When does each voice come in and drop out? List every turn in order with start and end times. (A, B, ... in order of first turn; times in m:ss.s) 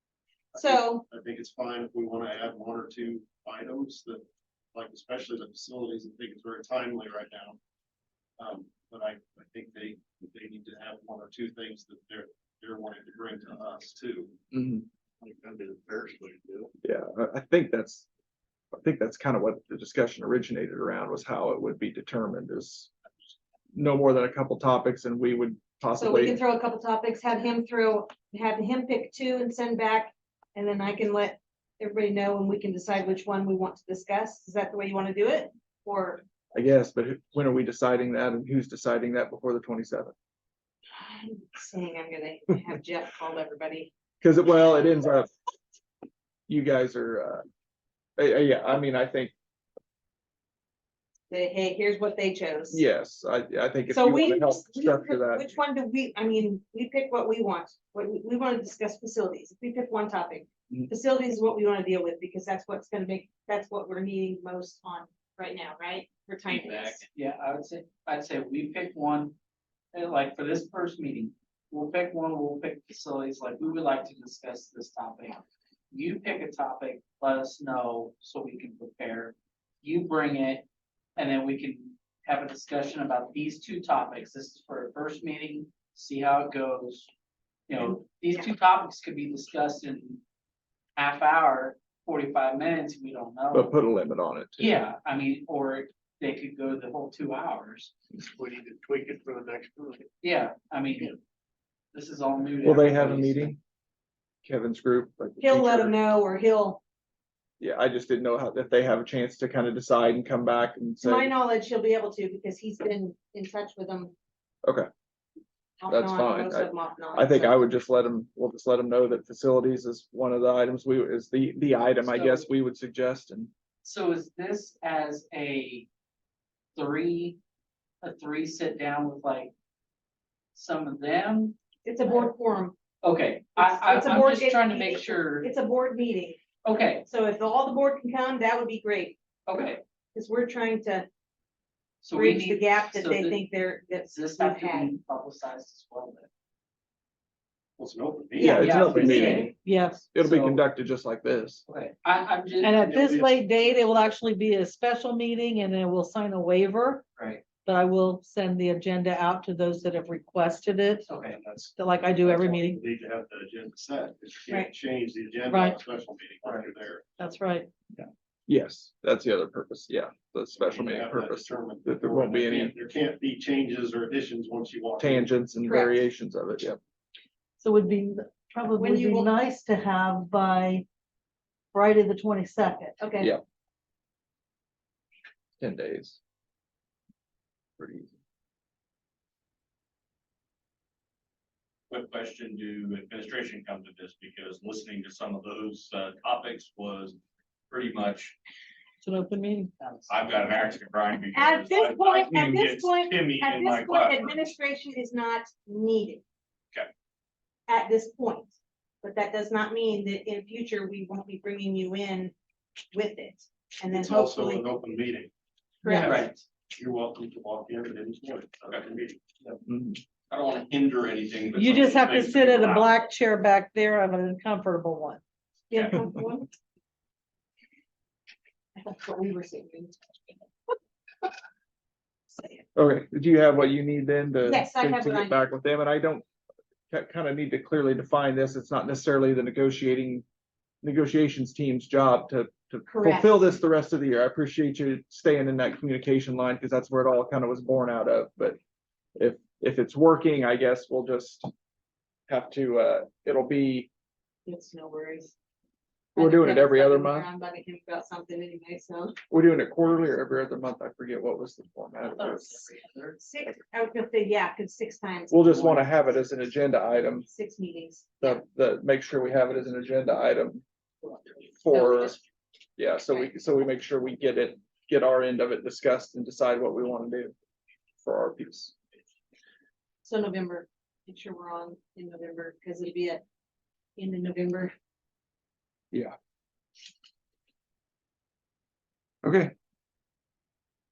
0:00.5-0:04.2 A
0:00.6-0:01.0 B
0:04.7-0:07.6 A
0:08.4-0:14.4 A
0:14.5-0:14.8 C
0:15.2-0:16.7 A
0:16.8-0:18.1 C
0:18.7-0:22.9 C
0:23.7-0:26.4 C
0:26.0-0:36.2 B
0:36.5-0:40.1 C
0:40.9-0:43.9 B
0:44.2-0:45.3 C
0:46.5-0:47.4 C
0:48.2-0:49.3 C
0:51.3-0:52.8 B
0:52.7-0:55.5 C
0:53.9-1:07.0 B
1:06.5-1:09.4 D
1:09.9-1:20.6 D
1:21.2-1:27.1 D
1:27.7-1:30.2 D
1:31.0-1:33.8 D
1:33.5-1:34.8 C
1:34.6-1:37.9 D
1:38.3-1:40.0 A
1:40.2-1:41.2 D
1:41.9-1:43.6 D
1:42.6-1:43.6 C
1:44.4-1:46.0 C
1:45.4-1:46.8 B
1:47.6-1:51.3 C
1:51.0-1:54.1 B
1:54.6-1:54.9 C
1:55.8-1:57.6 B
1:55.9-2:03.5 C
2:02.0-2:02.5 D
2:03.8-2:05.9 D
2:06.8-2:07.4 D
2:08.0-2:09.5 D
2:10.5-2:11.6 D
2:11.8-2:12.8 B
2:13.0-2:15.5 D
2:13.6-2:16.4 B
2:16.6-2:17.1 D
2:17.1-2:19.2 B
2:19.5-2:19.8 D
2:20.1-2:21.1 B
2:22.0-2:23.4 D
2:22.1-2:24.9 B
2:24.1-2:26.3 D
2:27.8-2:29.3 A
2:28.4-2:29.5 B
2:28.4-2:29.5 C
2:28.5-2:30.6 D
2:29.5-2:30.1 E
2:30.1-2:31.6 C
2:31.7-2:32.8 D
2:32.6-2:37.0 E
2:32.8-2:34.1 A
2:37.2-2:37.4 D
2:37.6-2:41.1 E
2:41.1-2:41.4 D
2:41.4-2:47.0 A
2:41.8-2:42.8 E
2:45.5-2:45.8 E
2:47.2-2:47.7 E
2:48.0-2:52.7 C
2:50.6-2:55.3 A
2:55.0-2:56.8 C
2:55.7-2:56.0 B
2:57.6-3:00.8 E
2:58.8-2:59.3 B
3:01.7-3:03.0 E
3:03.0-3:03.3 B
3:05.6-3:06.2 C
3:07.8-3:08.1 C
3:11.9-3:17.2 F
3:17.7-3:18.4 F
3:19.0-3:19.7 E
3:19.8-3:20.1 D
3:20.1-3:24.4 F
3:21.4-3:26.2 B
3:27.7-3:32.3 B
3:32.9-3:34.6 B
3:33.9-3:35.3 A
3:35.8-3:36.3 B
3:35.9-3:36.4 D
3:36.0-3:39.6 A
3:39.7-3:40.0 C
3:40.3-3:43.0 F
3:41.5-3:45.2 E
3:45.7-3:46.5 B
3:48.8-3:50.4 B
3:52.3-3:52.6 B
3:52.8-3:56.2 C
3:54.4-3:55.4 B
3:56.9-4:00.2 C
4:00.8-4:08.6 C
4:02.9-4:03.6 B
4:09.2-4:11.5 C
4:12.3-4:13.9 C
4:14.5-4:15.3 B
4:16.2-4:19.2 B
4:16.2-4:17.3 C
4:19.3-4:22.6 C
4:22.2-4:23.2 D
4:23.2-4:26.1 B
4:25.3-4:27.3 C
4:27.3-4:28.4 B
4:28.2-4:30.6 C
4:31.6-4:32.2 C
4:31.7-4:32.2 B
4:32.8-4:37.3 C
4:38.0-4:38.7 C
4:40.0-4:43.2 B
4:44.0-4:44.7 B
4:49.2-4:49.5 C